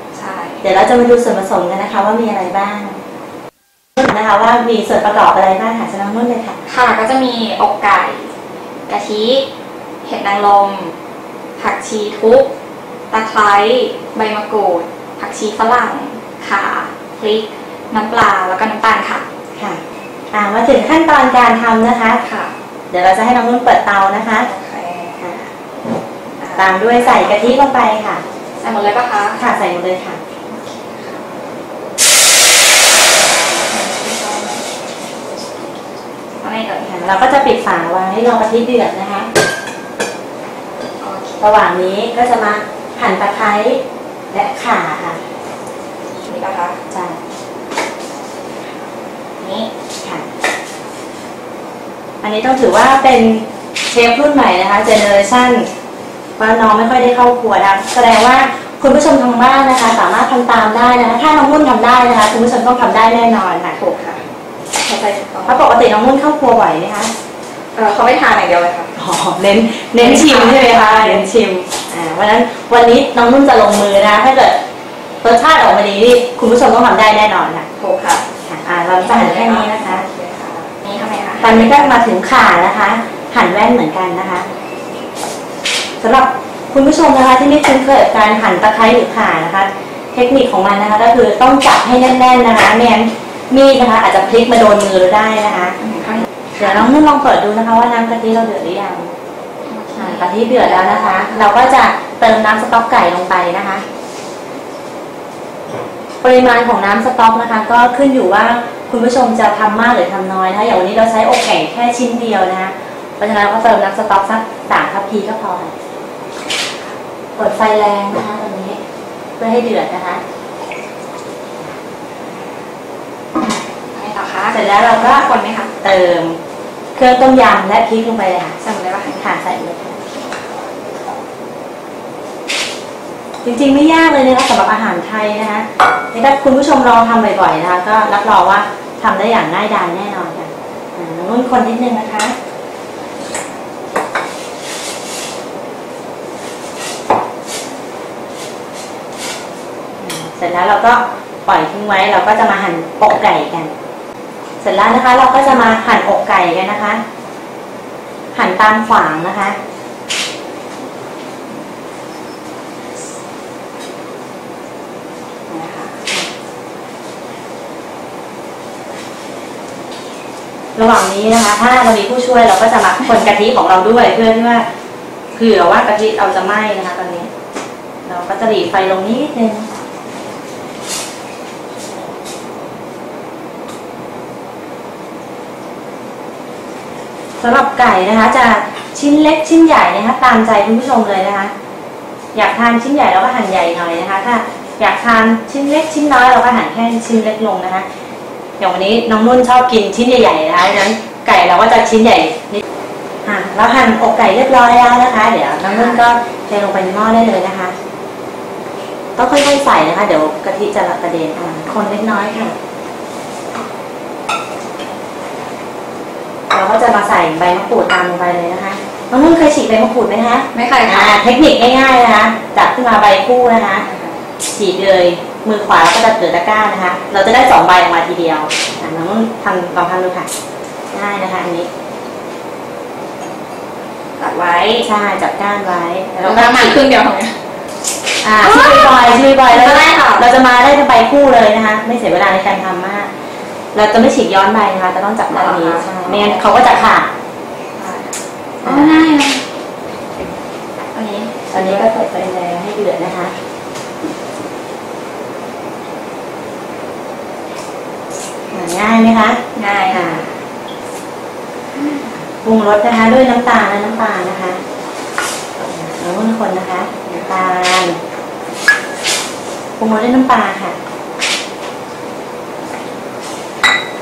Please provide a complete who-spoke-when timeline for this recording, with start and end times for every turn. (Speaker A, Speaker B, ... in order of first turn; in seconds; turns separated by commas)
Speaker A: 0.1-0.7, Speaker B: 0.6-3.0, Speaker B: 4.0-6.6, Speaker A: 6.7-8.3, Speaker A: 8.9-9.5, Speaker A: 10.0-11.0, Speaker A: 11.6-12.5, Speaker A: 13.1-19.3, Speaker B: 19.6-22.2, Speaker A: 22.2-22.5, Speaker B: 22.9-24.5, Speaker A: 24.4-25.2, Speaker B: 25.2-25.5, Speaker A: 26.4-27.6, Speaker B: 26.6-28.2, Speaker A: 28.6-29.4, Speaker B: 29.4-30.2, Speaker A: 30.5-31.3, Speaker A: 33.2-34.7, Speaker A: 36.4-37.2, Speaker B: 36.9-39.3, Speaker A: 41.0-41.4, Speaker B: 41.4-45.2, Speaker A: 46.2-46.8, Speaker B: 46.9-47.2, Speaker A: 49.4-49.7, Speaker B: 50.0-50.3, Speaker B: 52.2-55.7, Speaker B: 56.4-63.8, Speaker A: 63.8-64.2, Speaker A: 64.8-65.7, Speaker B: 65.5-67.1, Speaker A: 67.8-68.9, Speaker B: 69.0-74.6, Speaker A: 70.0-71.3, Speaker B: 75.2-77.7, Speaker A: 77.8-78.3, Speaker B: 78.4-80.0, Speaker A: 79.0-82.0, Speaker B: 81.4-84.5, Speaker B: 86.0-95.8, Speaker A: 95.8-96.9, Speaker B: 96.6-99.1, Speaker A: 99.7-101.5, Speaker B: 100.0-103.8, Speaker B: 106.2-115.7, Speaker B: 117.4-118.8, Speaker B: 119.4-120.2, Speaker A: 123.9-125.7, Speaker B: 124.5-125.3, Speaker B: 125.8-126.4, Speaker B: 127.0-128.6, Speaker A: 128.6-129.3, Speaker B: 129.2-130.0, Speaker B: 133.4-142.3, Speaker B: 150.0-153.7, Speaker B: 154.6-157.0, Speaker A: 155.4-155.8, Speaker B: 158.3-159.6, Speaker A: 165.5-166.1, Speaker B: 170.8-174.7, Speaker B: 175.3-177.3, Speaker B: 178.1-179.7, Speaker B: 187.4-191.5, Speaker B: 192.3-197.9, Speaker B: 198.6-202.6, Speaker B: 203.2-207.8, Speaker A: 205.6-206.1, Speaker B: 209.2-212.6, Speaker B: 216.5-223.8, Speaker A: 220.5-221.2, Speaker A: 223.8-224.2, Speaker B: 224.4-230.3, Speaker B: 230.9-231.7, Speaker A: 234.2-234.9, Speaker B: 234.8-236.8, Speaker A: 236.2-237.4, Speaker B: 238.2-243.1, Speaker A: 238.4-240.3, Speaker B: 243.7-247.1, Speaker A: 245.3-246.4, Speaker A: 247.8-249.4, Speaker B: 248.7-249.2, Speaker A: 250.9-251.9, Speaker B: 251.5-253.3, Speaker B: 258.5-260.2, Speaker A: 259.6-260.3, Speaker B: 262.4-264.6, Speaker B: 265.7-268.0, Speaker B: 269.8-270.8